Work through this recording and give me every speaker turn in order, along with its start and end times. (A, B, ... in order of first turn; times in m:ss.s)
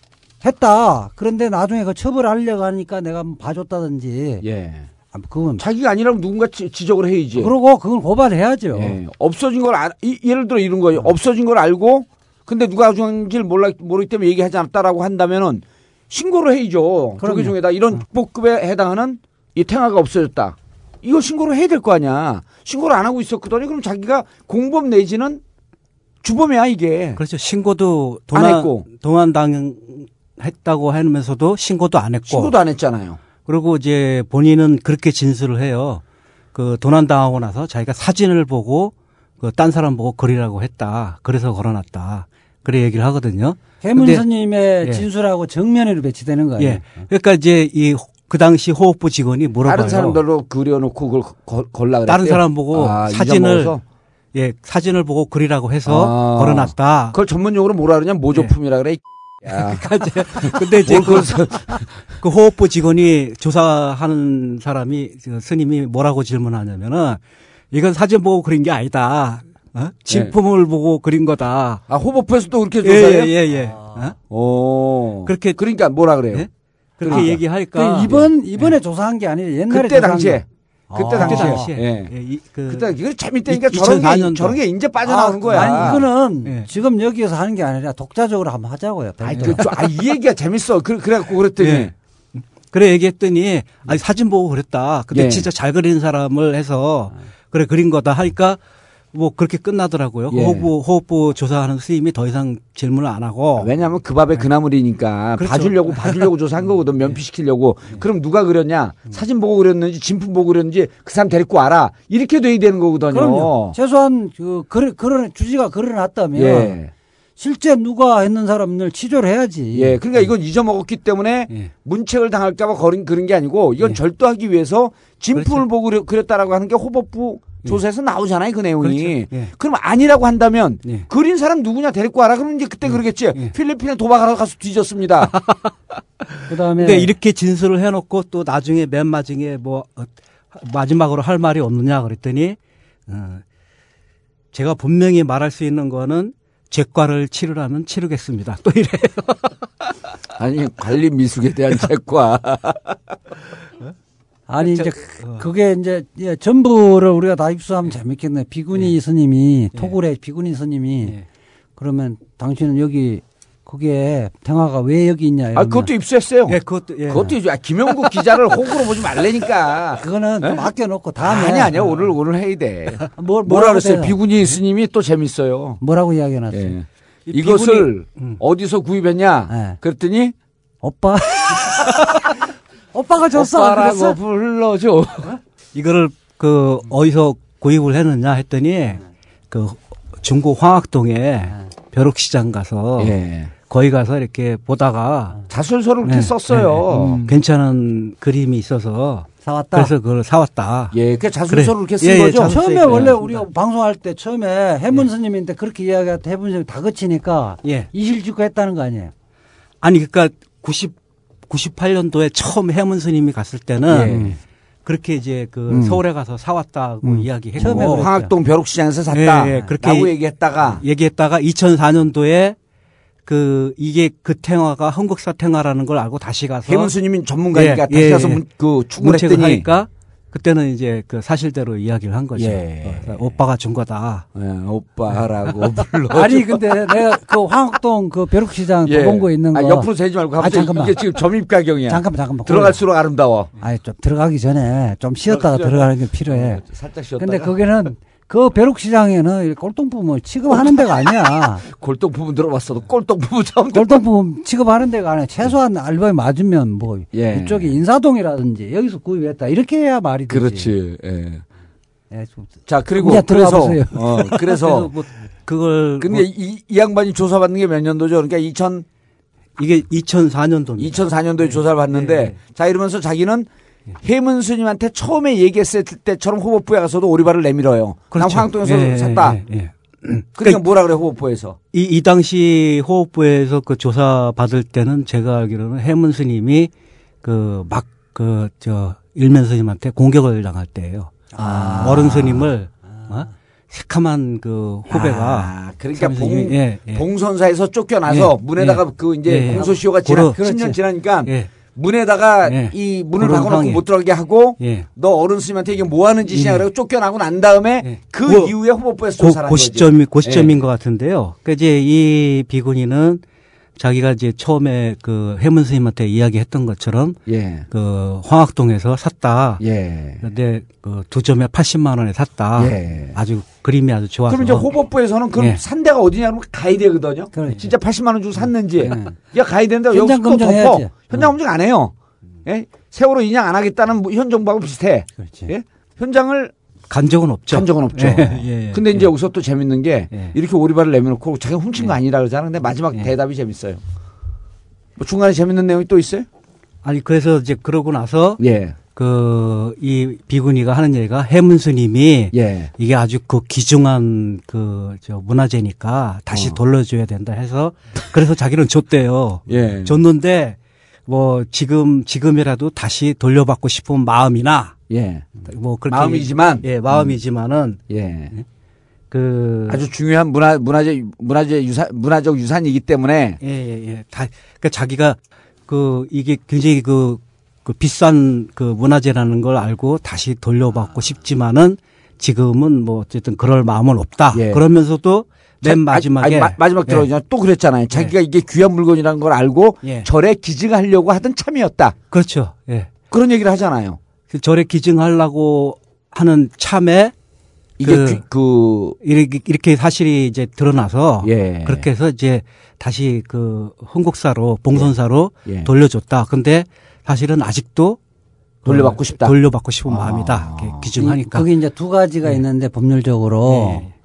0:00.4-0:04.4 A
0:04.4-0:04.9 B
0:05.1-0:05.6 A
0:05.6-0:07.5 B
0:07.4-0:09.0 A
0:08.7-0:25.4 B
0:17.2-0:17.6 A
0:26.2-0:27.2 B
0:27.2-0:32.5 C
0:28.3-0:28.9 B
0:32.3-0:33.2 B
0:33.4-0:36.0 C
0:36.5-0:44.2 C
0:43.8-0:47.0 A
0:46.6-0:50.2 C
0:49.6-0:53.8 B
0:52.1-0:53.8 C
0:54.4-0:57.2 C
0:55.9-1:01.9 B
0:59.5-1:07.2 C
1:07.7-1:11.8 C
1:11.9-1:13.3 B
1:12.8-1:14.2 C
1:13.7-1:14.1 A
1:14.3-1:16.5 B
1:15.3-1:15.6 C
1:16.3-1:18.8 C
1:17.0-1:21.7 A
1:17.1-1:17.4 B
1:19.7-1:22.1 B
1:21.2-1:23.0 C
1:22.7-1:26.0 B
1:23.5-1:24.6 C
1:25.0-1:29.6 A
1:25.5-1:26.7 C
1:29.2-1:31.9 B
1:29.4-1:29.8 C
1:31.6-1:38.6 C
1:35.1-1:35.5 B
1:39.1-1:43.7 C
1:40.3-1:40.7 B
1:43.6-1:53.8 B
1:45.4-1:46.3 C
1:53.1-1:56.8 A
1:56.4-1:56.9 B
1:57.4-2:00.0 A
1:59.7-2:15.3 B
2:05.4-2:05.6 C
2:08.8-2:09.5 C
2:12.9-2:13.6 C
2:15.2-2:23.4 C
2:16.5-2:17.1 A
2:24.5-2:29.6 C
2:30.4-2:33.0 B
2:34.5-2:41.2 A
2:34.6-2:35.5 C
2:41.8-2:45.9 A
2:45.6-2:50.7 B
2:46.5-2:47.4 C
2:50.0-2:51.8 A
2:51.2-2:55.8 B
2:53.2-2:54.2 A
2:55.8-2:56.8 A
2:56.5-3:00.3 B
2:57.3-2:58.4 C
2:57.4-2:57.6 A
2:59.5-2:59.8 A
3:00.8-3:02.0 A
3:02.9-3:04.2 A
3:03.4-3:05.4 B
3:05.7-3:15.4 C
3:13.0-3:13.5 B
3:15.5-3:17.3 B
3:16.0-3:21.0 C
3:19.4-3:19.9 A
3:20.9-3:23.1 B
3:21.5-3:23.5 C
3:22.4-3:29.1 A
3:27.6-3:27.9 C
3:29.8-3:31.0 C
3:31.5-3:34.3 C
3:33.9-3:34.4 B
3:34.8-3:38.1 C
3:35.7-3:36.0 A
3:37.0-3:38.3 A
3:37.6-3:40.8 B
3:39.1-3:40.1 C
3:40.7-3:42.6 C
3:43.2-3:46.9 C
3:46.7-3:49.7 B
3:47.5-3:48.4 C
3:49.0-3:54.3 C
3:52.4-3:53.4 B
3:54.4-3:56.6 B
3:56.1-4:01.0 A
3:58.8-4:03.5 B
4:01.9-4:02.8 A
4:03.6-4:06.6 A
4:05.3-4:07.6 B
4:07.2-4:11.6 A
4:10.5-4:14.0 B
4:13.7-4:20.7 A
4:17.1-4:17.8 B
4:20.3-4:21.4 B
4:22.1-4:25.1 A
4:22.7-4:24.9 B
4:25.4-4:26.3 C
4:26.0-4:28.8 B
4:29.6-4:32.4 C
4:30.8-4:33.5 B
4:34.0-4:39.4 B
4:38.1-4:40.6 C
4:40.4-4:41.6 B
4:41.7-4:46.7 C
4:47.2-4:57.1 C
4:51.3-4:52.2 A
4:51.4-4:52.5 B
4:54.9-5:10.6 B
4:58.1-5:00.4 C
4:59.5-5:00.8 A
5:01.3-5:01.5 C
5:02.4-5:03.8 C
5:04.6-5:04.9 C
5:06.3-5:06.6 C
5:07.8-5:08.5 C
5:09.2-5:13.2 C
5:13.8-5:17.2 C
5:17.3-5:17.7 B
5:17.7-5:19.6 C
5:19.6-5:20.2 B
5:20.2-5:24.7 C
5:22.6-5:23.2 B
5:24.3-5:31.9 B
5:25.4-5:25.6 C
5:27.3-5:27.7 A
5:28.8-5:29.2 A
5:29.9-5:31.0 A
5:32.4-5:36.5 B
5:35.2-5:35.5 A
5:36.9-5:39.1 C
5:37.5-5:43.8 B
5:45.0-5:46.3 B
5:46.8-6:04.8 C
5:48.4-5:48.8 B
5:52.3-5:52.7 B
5:56.3-5:56.6 B
5:59.5-6:00.0 B
6:04.9-6:05.3 B
6:05.4-6:07.8 C
6:05.9-6:07.2 B
6:07.9-6:08.3 B
6:09.1-6:09.8 C
6:09.7-6:13.4 B
6:13.4-6:27.1 C
6:24.3-6:24.6 B
6:25.6-6:32.0 B
6:29.8-6:30.1 C
6:32.1-6:32.9 C
6:33.1-6:34.0 B
6:34.3-6:37.1 C
6:37.8-6:38.2 C
6:37.8-6:39.0 B
6:39.0-6:48.0 C
6:41.2-6:41.9 B
6:45.4-6:45.7 B
6:48.6-6:50.9 B
6:48.7-6:51.5 C
6:51.0-6:53.8 A
6:53.5-6:53.9 C